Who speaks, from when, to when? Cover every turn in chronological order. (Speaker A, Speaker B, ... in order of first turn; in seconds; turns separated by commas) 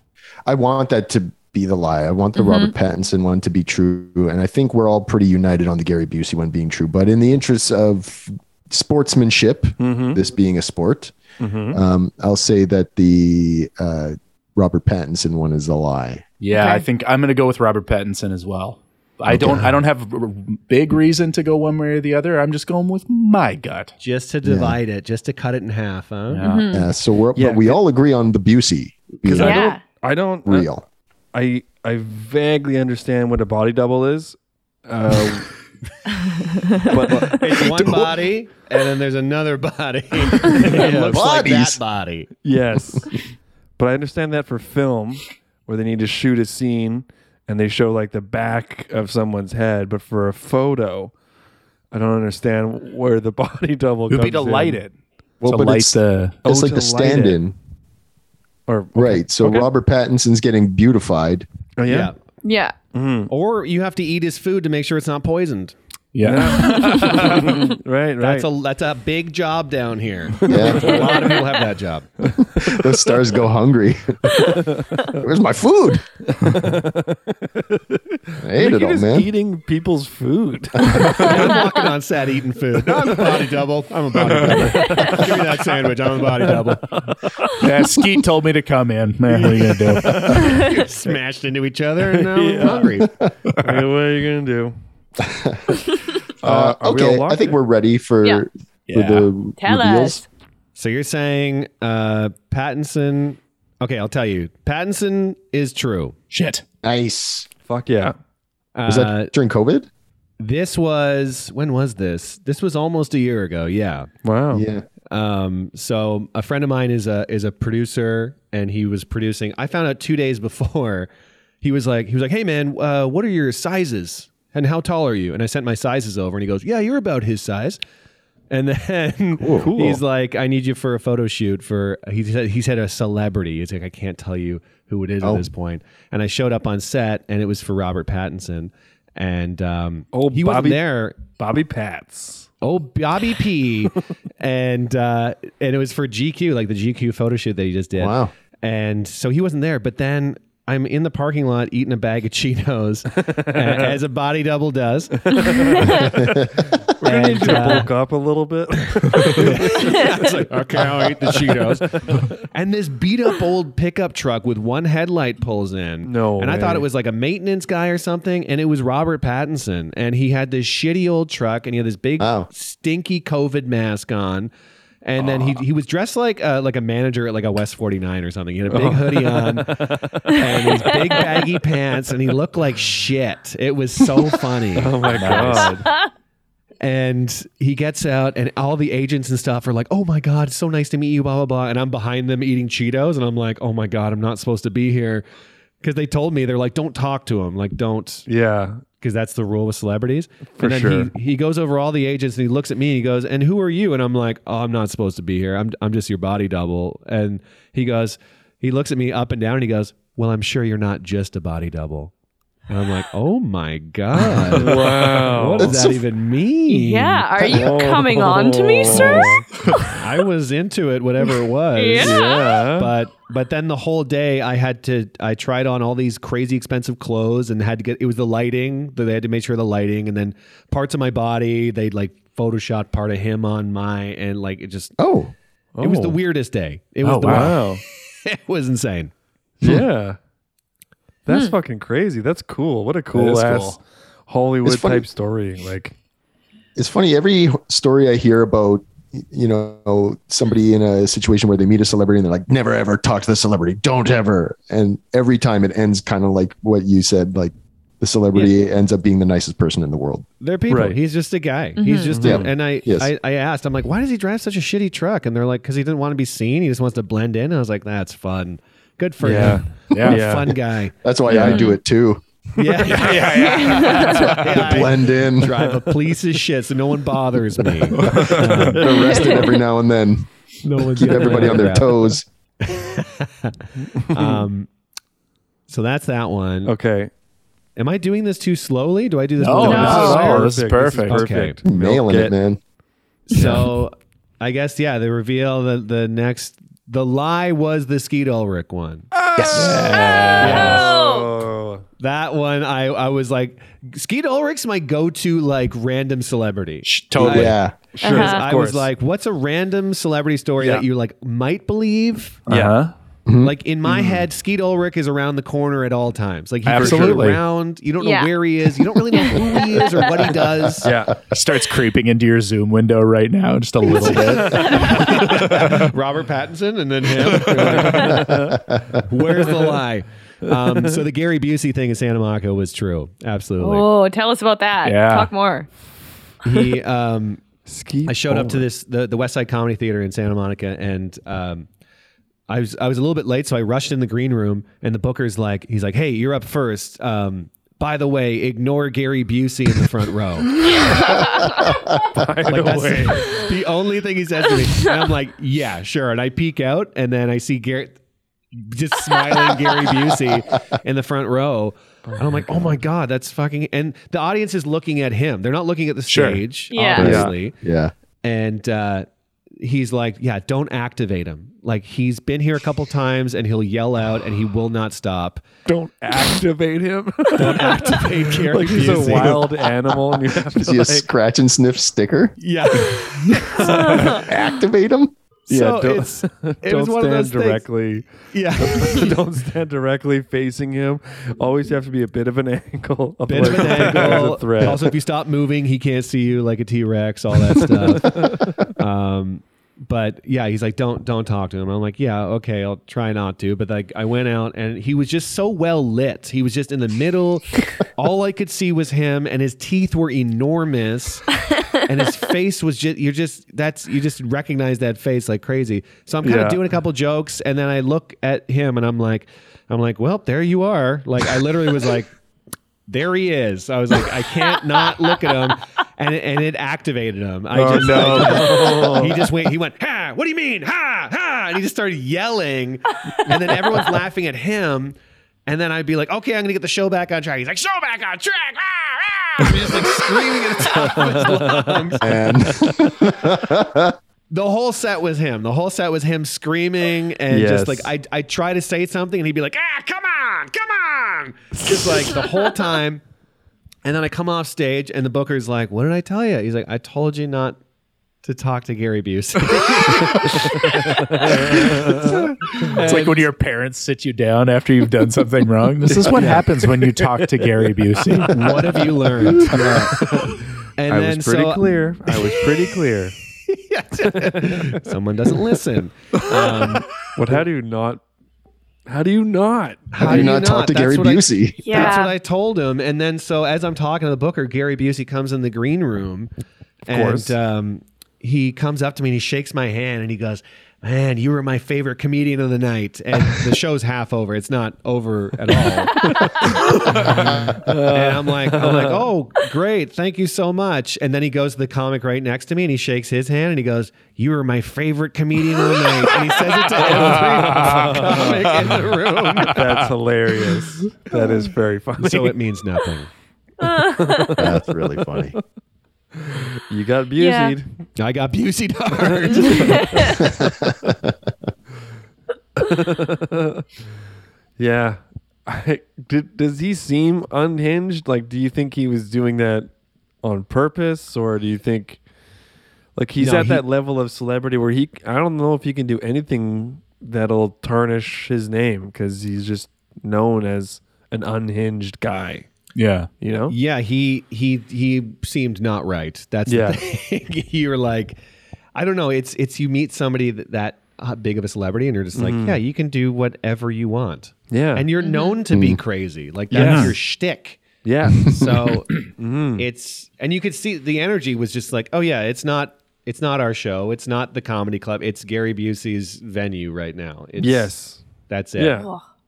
Speaker A: 0.5-11.1, Speaker B: 2.4-2.7, Speaker C: 9.8-10.2, Speaker C: 11.4-11.8, Speaker A: 11.7-16.2, Speaker D: 16.4-23.9, Speaker B: 16.5-16.9, Speaker A: 19.3-19.8, Speaker E: 24.0-26.4, Speaker A: 24.4-24.8, Speaker D: 26.3-26.7, Speaker B: 26.4-26.9, Speaker A: 26.7-29.7, Speaker C: 27.3-27.8, Speaker C: 29.2-30.7, Speaker B: 29.4-29.8, Speaker A: 30.4-30.8, Speaker C: 31.3-35.5, Speaker C: 36.8-37.5, Speaker E: 37.3-42.3, Speaker D: 37.7-38.0, Speaker C: 40.6-41.2, Speaker A: 41.1-41.8, Speaker C: 42.4-43.2, Speaker C: 43.8-51.1, Speaker C: 51.9-54.8, Speaker D: 54.1-54.9, Speaker A: 55.4-57.5, Speaker D: 55.4-56.4, Speaker C: 56.4-57.5, Speaker C: 58.7-59.7, Speaker A: 58.9-61.5, Speaker C: 61.8-62.1, Speaker E: 61.9-62.1, Speaker B: 62.4-62.7, Speaker C: 62.9-63.3, Speaker E: 63.3-65.7, Speaker D: 66.1-67.5, Speaker C: 66.2-68.5, Speaker B: 66.6-67.0, Speaker E: 68.2-72.1, Speaker C: 70.4-71.4, Speaker A: 70.5-71.0, Speaker C: 72.2-72.8, Speaker A: 72.5-74.4, Speaker C: 74.6-75.2, Speaker A: 75.2-76.0, Speaker C: 76.3-81.8, Speaker A: 78.4-79.3, Speaker E: 81.1-86.9, Speaker C: 82.9-83.5, Speaker C: 84.3-87.6, Speaker D: 87.6-90.6, Speaker E: 89.3-93.1, Speaker C: 89.5-90.8, Speaker C: 92.2-93.0, Speaker D: 93.5-93.8, Speaker C: 93.6-94.8, Speaker A: 95.2-95.8, Speaker C: 96.4-97.6, Speaker A: 96.4-100.2, Speaker D: 98.9-99.3, Speaker B: 99.6-100.2, Speaker E: 100.8-106.2, Speaker D: 106.3-106.6, Speaker A: 106.8-107.5, Speaker C: 107.7-108.2, Speaker E: 108.7-109.3, Speaker A: 108.8-109.9, Speaker E: 110.4-114.1, Speaker C: 114.2-114.6, Speaker A: 114.5-114.8, Speaker E: 115.1-121.1, Speaker E: 121.6-127.8, Speaker E: 128.5-141.2, Speaker A: 129.4-129.7, Speaker C: 129.6-130.0, Speaker C: 140.1-142.5, Speaker E: 142.6-155.5, Speaker A: 147.9-148.3, Speaker C: 153.4-153.9, Speaker C: 155.3-156.4, Speaker B: 155.4-155.8, Speaker A: 156.0-156.6, Speaker C: 157.0-160.3, Speaker D: 157.0-157.8, Speaker E: 157.2-157.9, Speaker E: 158.8-174.5, Speaker C: 161.3-162.2, Speaker C: 166.0-166.9, Speaker A: 172.2-172.5, Speaker E: 175.0-185.7, Speaker C: 175.2-175.5, Speaker C: 178.7-181.3, Speaker C: 184.7-185.9, Speaker D: 185.0-185.7, Speaker E: 186.8-195.2, Speaker E: 195.8-198.2, Speaker C: 198.3-198.8, Speaker E: 199.0-212.1, Speaker C: 200.6-201.1, Speaker E: 212.7-217.3, Speaker C: 214.5-215.8, Speaker A: 215.6-216.0, Speaker B: 216.7-219.8, Speaker A: 217.4-217.7, Speaker C: 217.5-219.4, Speaker E: 218.9-219.3, Speaker E: 219.8-234.9, Speaker B: 221.8-222.6, Speaker C: 222.0-222.9, Speaker A: 235.0-235.3, Speaker C: 235.8-236.2, Speaker E: 235.8-239.1, Speaker D: 237.0-237.6, Speaker C: 237.2-237.8, Speaker C: 239.6-240.2, Speaker C: 241.2-245.9, Speaker D: 243.1-243.8, Speaker A: 244.6-245.0, Speaker A: 246.8-260.2, Speaker E: 260.4-270.9, Speaker C: 260.7-261.0, Speaker B: 261.8-262.2, Speaker C: 262.2-262.5, Speaker A: 262.2-263.1, Speaker C: 269.2-270.5, Speaker D: 269.9-270.2, Speaker A: 271.0-272.2, Speaker D: 271.3-271.6, Speaker B: 271.4-271.8, Speaker E: 272.6-279.1, Speaker D: 272.8-274.9, Speaker B: 273.4-274.1, Speaker A: 274.5-275.7, Speaker D: 277.9-278.8, Speaker A: 278.2-280.3, Speaker B: 279.1-279.4, Speaker E: 280.6-284.7, Speaker A: 280.9-282.2, Speaker C: 281.2-281.6, Speaker C: 283.9-284.5, Speaker E: 285.7-286.7, Speaker C: 286.6-287.1, Speaker E: 287.8-290.5, Speaker D: 289.4-291.3, Speaker C: 289.6-292.3, Speaker B: 289.6-290.2, Speaker E: 291.1-291.6, Speaker A: 291.6-292.6, Speaker E: 293.3-299.1, Speaker C: 299.1-301.8, Speaker A: 299.3-299.9, Speaker D: 299.4-300.8, Speaker B: 299.9-301.3, Speaker E: 300.4-300.9, Speaker E: 302.0-312.4, Speaker D: 306.9-307.6, Speaker A: 307.2-307.8, Speaker C: 308.0-308.9, Speaker B: 308.0-308.4, Speaker C: 310.6-310.8, Speaker C: 312.5-312.8, Speaker D: 312.5-312.9, Speaker A: 313.2-313.5, Speaker E: 313.4-320.9, Speaker C: 313.8-314.2, Speaker D: 316.6-317.4, Speaker C: 316.8-317.2, Speaker B: 318.0-318.3, Speaker B: 319.1-320.1, Speaker C: 320.8-321.2, Speaker D: 321.3-325.9, Speaker E: 323.9-328.5, Speaker B: 324.4-325.1, Speaker C: 324.5-325.2, Speaker D: 327.2-327.8, Speaker C: 327.4-328.6, Speaker A: 328.3-328.8, Speaker E: 329.1-333.9, Speaker C: 329.4-329.8, Speaker C: 330.5-330.9, Speaker B: 333.6-335.7, Speaker D: 334.8-335.3, Speaker E: 336.4-337.5, Speaker C: 337.6-338.7, Speaker E: 338.0-341.7, Speaker E: 342.5-350.6, Speaker B: 351.0-351.4, Speaker C: 352.1-353.4, Speaker E: 352.5-358.0, Speaker E: 358.5-367.6, Speaker C: 362.1-362.8, Speaker D: 366.1-366.4, Speaker B: 366.7-367.1, Speaker C: 366.9-367.3, Speaker A: 367.0-367.9, Speaker E: 368.2-369.1, Speaker E: 369.6-375.4, Speaker C: 375.7-381.1, Speaker E: 377.4-379.7, Speaker A: 380.5-382.3, Speaker E: 382.4-384.1, Speaker C: 383.6-384.2, Speaker A: 383.9-385.1, Speaker E: 385.5-387.6, Speaker C: 385.5-395.0, Speaker E: 388.3-389.2, Speaker E: 393.3-422.1, Speaker C: 397.6-398.6, Speaker C: 416.2-416.6, Speaker E: 422.9-434.9, Speaker D: 427.5-429.0, Speaker C: 427.9-429.1, Speaker E: 435.5-442.1, Speaker C: 440.6-442.0, Speaker A: 442.0-443.9, Speaker E: 444.3-453.0, Speaker C: 447.3-447.9, Speaker C: 451.6-452.3, Speaker E: 453.8-457.6, Speaker E: 458.2-462.1, Speaker C: 460.1-462.3, Speaker D: 461.4-469.9, Speaker E: 462.6-463.3, Speaker C: 465.9-466.9, Speaker E: 466.1-466.5, Speaker E: 468.3-472.4, Speaker C: 469.3-473.1, Speaker D: 471.0-471.5, Speaker E: 473.5-477.4, Speaker C: 474.0-474.8, Speaker C: 477.1-478.0, Speaker C: 478.9-480.3, Speaker E: 479.9-486.3, Speaker A: 480.0-481.9, Speaker B: 481.6-482.1, Speaker C: 486.9-487.4, Speaker E: 486.9-509.7, Speaker C: 495.6-499.1, Speaker C: 506.7-508.6, Speaker D: 506.9-508.1, Speaker D: 508.7-509.8, Speaker C: 509.4-512.4, Speaker E: 512.0-513.1, Speaker B: 513.6-514.3, Speaker C: 513.8-514.6, Speaker A: 514.4-515.4, Speaker C: 516.1-517.9, Speaker B: 517.2-517.6, Speaker E: 518.0-520.0, Speaker C: 518.9-520.2, Speaker B: 519.5-520.0, Speaker A: 520.2-521.1, Speaker C: 522.6-523.6, Speaker C: 524.6-529.7, Speaker C: 530.2-532.0, Speaker C: 533.0-542.5, Speaker E: 533.2-533.6, Speaker D: 542.7-543.1, Speaker C: 543.2-543.5, Speaker E: 543.5-548.2, Speaker C: 546.5-546.8, Speaker E: 548.7-567.7, Speaker C: 552.1-552.6, Speaker C: 554.5-554.9, Speaker B: 555.0-555.4, Speaker A: 555.5-555.8, Speaker C: 556.5-556.9, Speaker D: 556.5-556.9, Speaker C: 557.8-559.6, Speaker C: 567.4-568.0, Speaker E: 568.3-568.8, Speaker C: 568.5-568.9, Speaker B: 568.8-569.0